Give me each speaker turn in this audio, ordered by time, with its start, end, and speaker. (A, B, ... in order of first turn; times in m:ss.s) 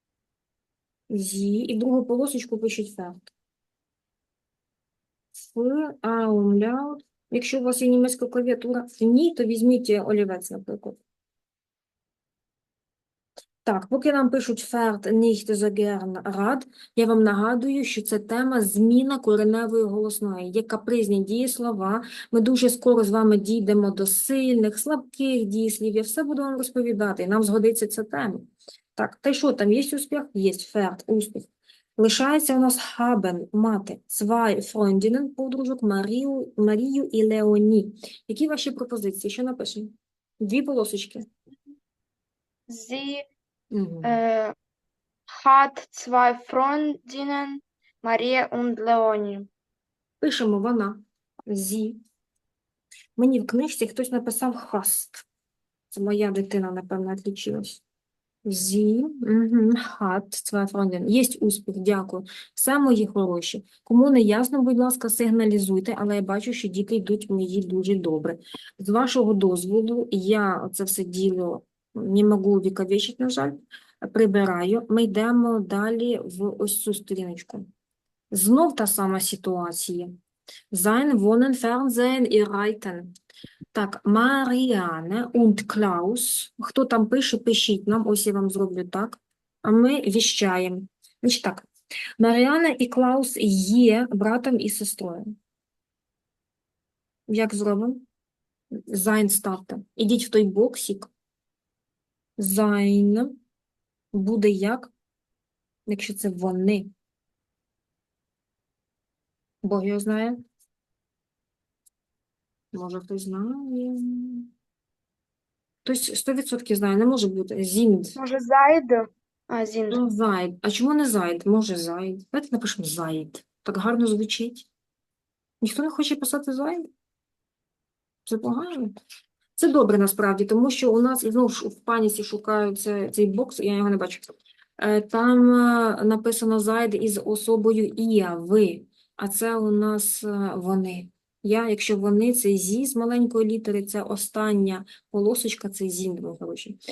0:01.1-0:03.2 A
0:05.4-0:11.0 A
0:13.6-0:41.3 A
0:42.7-0:43.3 B
0:43.7-0:44.2 A
0:44.0-0:44.5 B
0:45.3-0:49.5 B
0:50.2-0:52.0 A
0:53.2-0:55.2 A
0:55.9-0:57.8 A
0:58.4-1:17.7 A
1:18.3-1:20.1 A
1:20.7-1:23.1 A
1:23.7-1:31.7 A
1:32.2-1:35.3 A
1:37.3-1:38.0 A
1:38.9-1:41.1 A
1:42.4-1:43.3 A
1:44.1-1:44.9 A
1:45.9-1:46.9 A
1:49.6-1:50.4 A
1:52.7-1:54.5 A
1:55.8-1:58.2 A
1:58.2-2:00.0 B
1:59.9-2:04.7 A
2:05.6-2:06.8 A
2:08.2-2:08.9 A
2:09.6-2:26.8 A